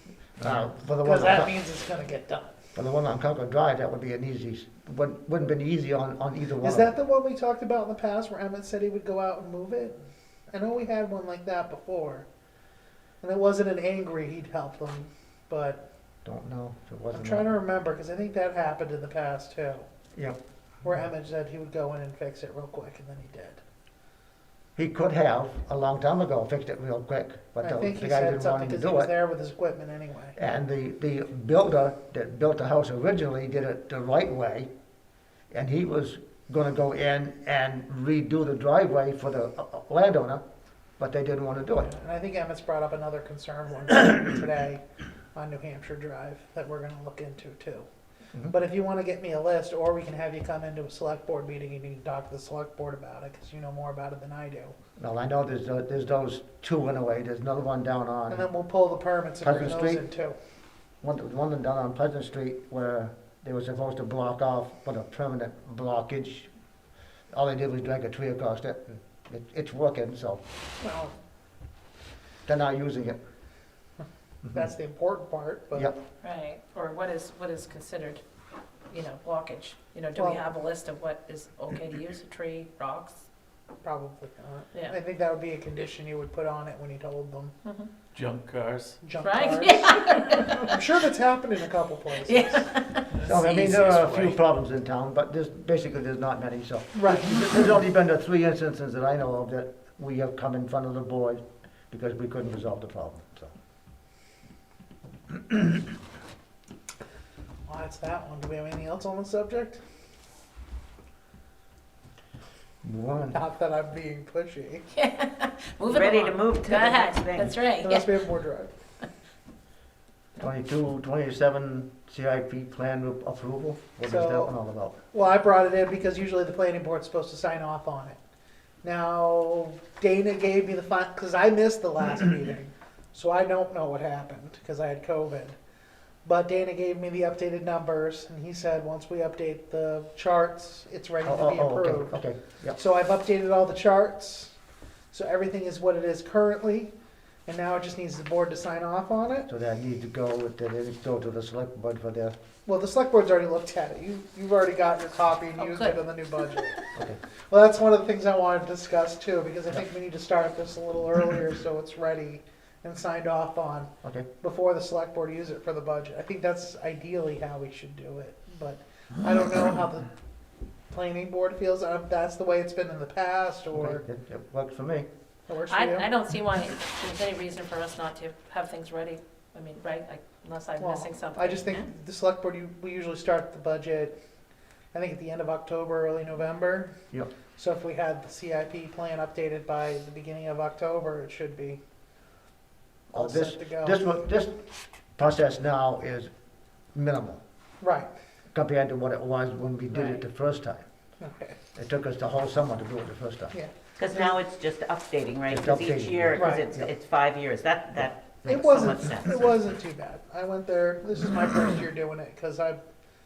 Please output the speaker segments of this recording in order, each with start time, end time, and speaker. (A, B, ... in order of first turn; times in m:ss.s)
0:00.4-0:01.5 A
0:01.0-0:02.6 B
0:02.7-0:06.9 A
0:06.6-0:10.0 B
0:10.5-0:12.2 B
0:13.2-0:15.8 B
0:16.2-0:17.5 A
0:17.1-0:19.9 B
0:20.8-0:23.6 B
0:24.8-0:29.1 A
0:27.6-0:30.4 B
0:30.4-0:34.7 A
0:35.5-0:40.4 A
0:41.0-0:41.9 A
0:41.8-0:44.8 B
0:45.3-0:47.8 B
0:48.5-0:54.7 B
0:55.0-0:58.4 A
0:58.3-1:00.4 B
0:59.4-1:00.0 A
1:01.0-1:06.5 A
1:07.3-1:10.4 A
1:10.8-1:11.1 B
1:12.4-1:13.2 A
1:14.5-1:15.9 B
1:16.2-1:18.2 C
1:18.9-1:23.2 C
1:20.2-1:20.4 B
1:23.8-1:27.5 B
1:27.6-1:27.9 C
1:28.1-1:29.0 D
1:29.0-1:32.7 B
1:29.2-1:30.7 C
1:32.2-1:33.1 C
1:33.1-1:34.4 D
1:33.2-1:43.5 A
1:36.9-1:37.4 B
1:47.7-1:49.8 B
1:52.8-1:53.4 A
1:53.3-1:54.9 B
1:54.9-1:58.2 C
1:55.9-1:57.6 E
1:57.8-1:58.7 B
2:00.4-2:05.0 A
2:04.0-2:04.5 B
2:05.1-2:08.2 B
2:08.8-2:15.6 B
2:16.2-2:22.2 B
2:21.2-2:22.8 A
2:22.8-2:24.5 B
2:25.1-2:26.9 B
2:27.5-2:29.5 B
2:29.5-2:32.4 A
2:32.6-2:36.8 B
2:35.6-2:36.0 C
2:37.5-2:50.1 B
2:50.9-2:54.0 B
2:53.7-2:55.1 A
2:55.5-2:56.1 B
2:55.7-3:01.8 C
3:00.8-3:04.2 B
3:04.9-3:06.9 B
3:07.6-3:11.8 B
3:13.1-3:14.6 A
3:13.1-3:14.0 B
3:15.2-3:16.3 A
3:16.9-3:17.4 A
3:17.8-3:18.1 B
3:18.5-3:20.8 A
3:19.9-3:20.2 B
3:21.2-3:21.6 B
3:21.7-3:23.5 A
3:23.5-3:24.4 B
3:24.0-3:29.5 E
3:25.5-3:26.9 A
3:26.3-3:26.6 B
3:28.5-3:32.8 B